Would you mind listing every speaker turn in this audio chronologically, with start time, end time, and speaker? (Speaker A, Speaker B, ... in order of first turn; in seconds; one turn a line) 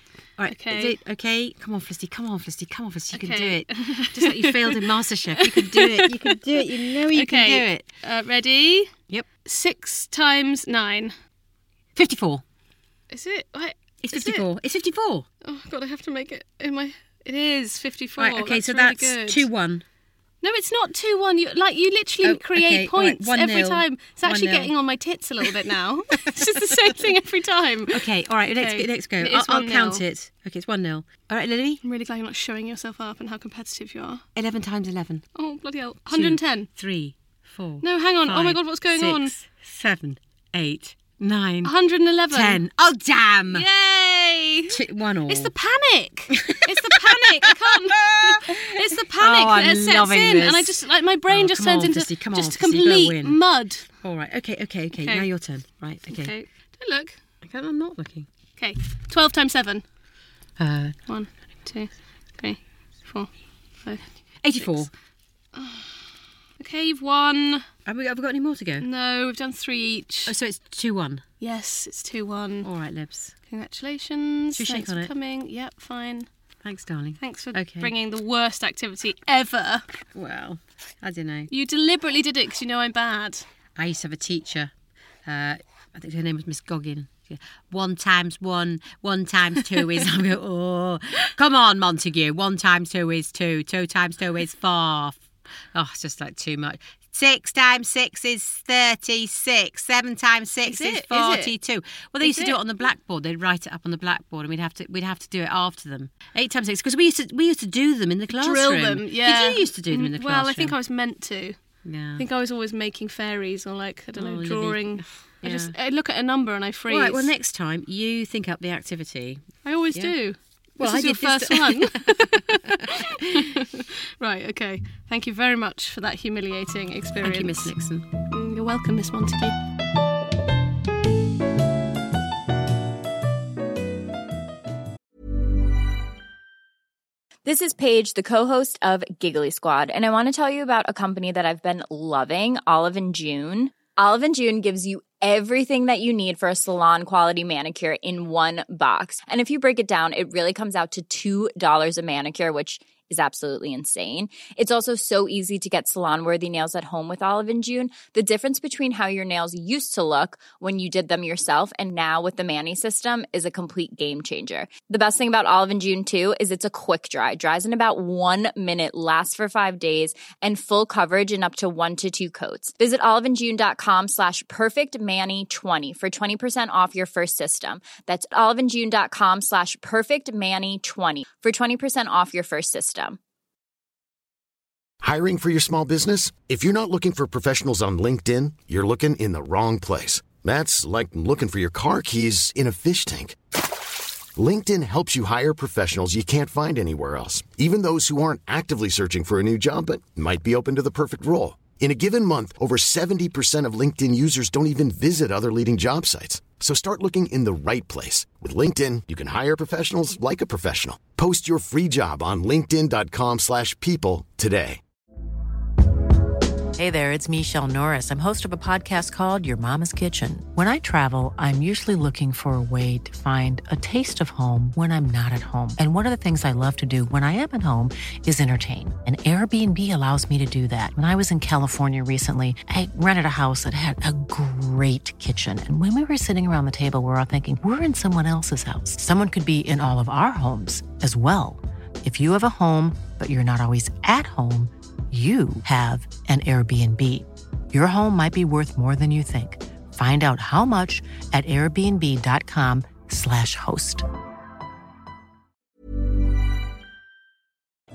Speaker A: 0.4-7.9
Speaker B: 0.5-1.0
Speaker B: 3.1-4.9
Speaker B: 5.4-8.9
Speaker B: 9.4-11.2
Speaker A: 12.0-12.4
Speaker B: 13.1-14.5
Speaker A: 14.0-15.3
Speaker B: 15.4-19.5
Speaker A: 18.2-19.8
Speaker B: 20.4-30.0
Speaker A: 22.2-24.7
Speaker A: 26.2-26.9
Speaker A: 27.9-31.8
Speaker B: 31.8-34.2
Speaker A: 34.4-35.2
Speaker B: 35.4-36.7
Speaker A: 36.1-41.7
Speaker B: 37.8-39.3
Speaker B: 41.6-42.6
Speaker A: 42.3-43.6
Speaker B: 43.5-53.9
Speaker A: 44.7-45.5
Speaker A: 46.3-53.4
Speaker A: 54.0-56.3
Speaker B: 54.9-55.3
Speaker B: 56.1-57.2
Speaker A: 57.4-58.3
Speaker B: 58.6-59.8
Speaker A: 60.6-61.0
Speaker B: 61.1-63.3
Speaker A: 64.4-64.9
Speaker B: 65.5-66.0
Speaker B: 66.6-67.7
Speaker A: 67.9-68.9
Speaker B: 68.8-70.3
Speaker A: 70.3-71.2
Speaker B: 71.4-72.7
Speaker A: 72.6-73.3
Speaker B: 73.5-76.3
Speaker A: 74.5-75.1
Speaker A: 76.6-77.9
Speaker B: 77.2-79.8
Speaker A: 80.2-81.5
Speaker B: 81.5-83.5
Speaker A: 83.8-84.7
Speaker A: 85.3-95.2
Speaker A: 95.7-110.8
Speaker B: 100.7-101.5
Speaker B: 102.2-102.6
Speaker B: 108.3-111.6
Speaker A: 111.8-112.2
Speaker B: 112.2-117.3
Speaker A: 114.2-115.8
Speaker A: 116.9-120.2
Speaker B: 119.7-127.7
Speaker A: 120.8-122.4
Speaker A: 122.9-123.4
Speaker A: 127.2-128.1
Speaker B: 128.3-129.6
Speaker C: 137.4-183.2
Speaker D: 185.0-193.4
Speaker D: 194.4-214.8
Speaker E: 216.8-254.1